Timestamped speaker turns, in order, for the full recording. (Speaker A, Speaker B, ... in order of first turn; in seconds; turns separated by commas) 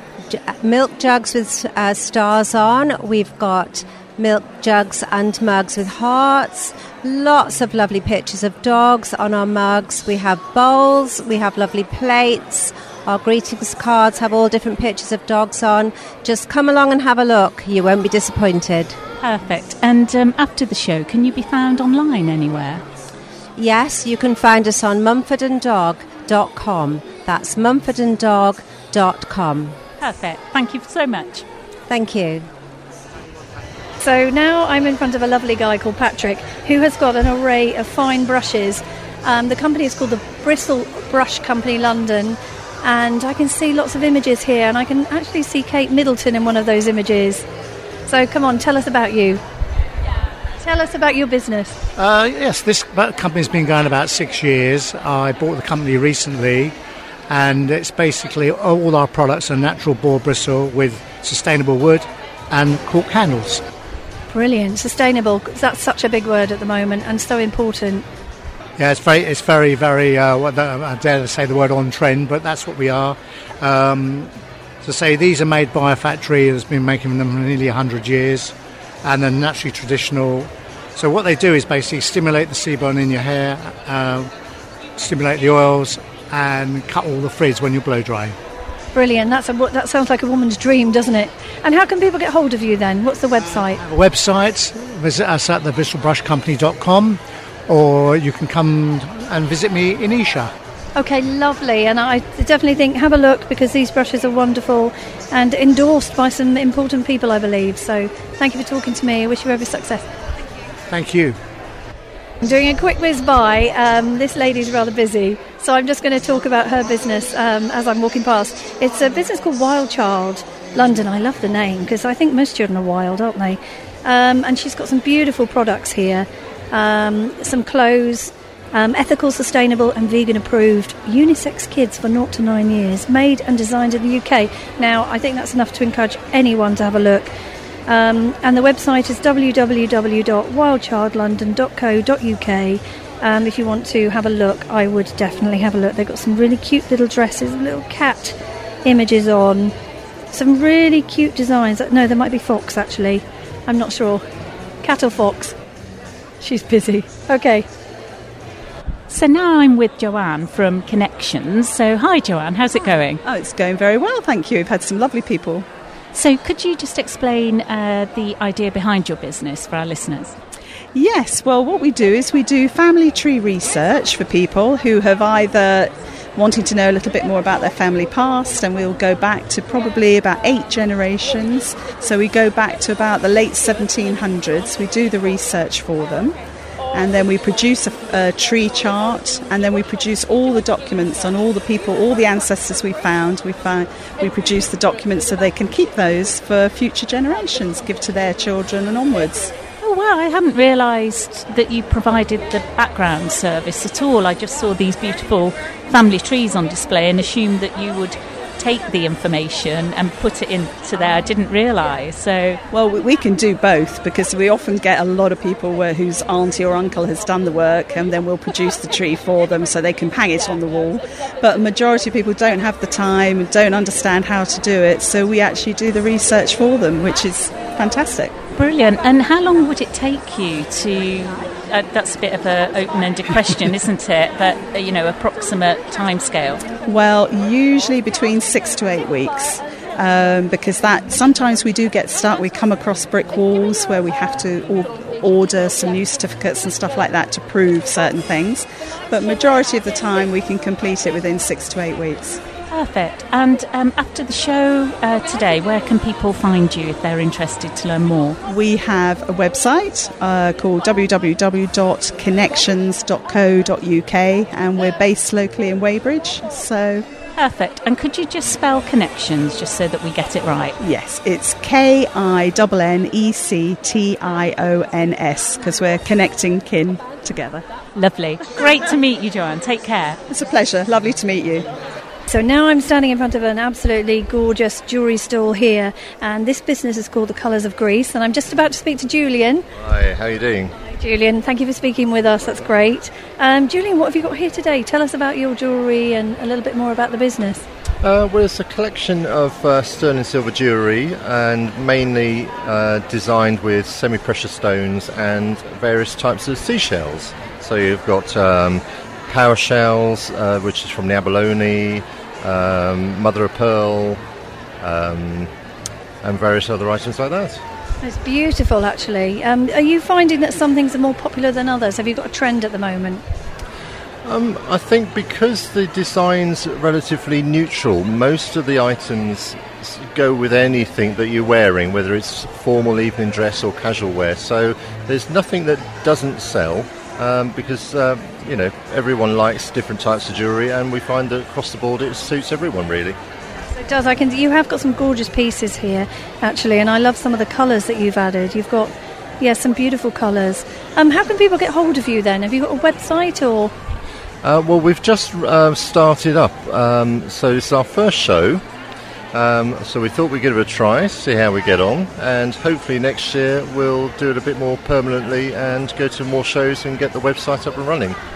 Speaker A: 0.3-19.0, Speaker B: 19.2-22.8, Speaker A: 23.6-29.8, Speaker B: 30.0-31.4, Speaker A: 31.9-32.5, Speaker C: 34.0-47.4, Speaker C: 48.1-49.4, Speaker C: 50.6-51.8, Speaker D: 52.0-56.7, Speaker D: 57.3-63.6, Speaker C: 64.3-68.0, Speaker D: 68.8-78.5, Speaker D: 79.0-84.3, Speaker D: 85.0-88.3, Speaker C: 88.9-93.8, Speaker D: 93.8-100.5, Speaker C: 101.0-110.0, Speaker D: 110.9-111.4, Speaker C: 112.4-137.3, Speaker C: 137.9-149.7, Speaker C: 150.3-154.2, Speaker C: 154.8-155.6, Speaker C: 156.4-157.7, Speaker B: 159.1-163.2, Speaker E: 163.2-165.7, Speaker B: 166.1-170.3, Speaker E: 170.9-186.3, Speaker E: 186.9-199.5, Speaker B: 199.8-212.6, Speaker E: 212.7-228.3, Speaker B: 228.6-236.7, Speaker E: 236.8-252.4, Speaker B: 252.7-258.4, Speaker E: 258.5-267.1, Speaker B: 267.4-270.8, Speaker E: 270.8-277.6, Speaker B: 277.9-280.2, Speaker E: 280.3-281.7, Speaker C: 282.3-289.6, Speaker F: 289.7-290.7, Speaker C: 291.0-297.6, Speaker F: 298.0-314.2, Speaker F: 314.8-315.5, Speaker F: 316.2-317.6, Speaker C: 318.0-323.2, Speaker F: 324.2-343.2, Speaker C: 343.7-353.7, Speaker F: 354.4-358.6, Speaker F: 359.3-368.2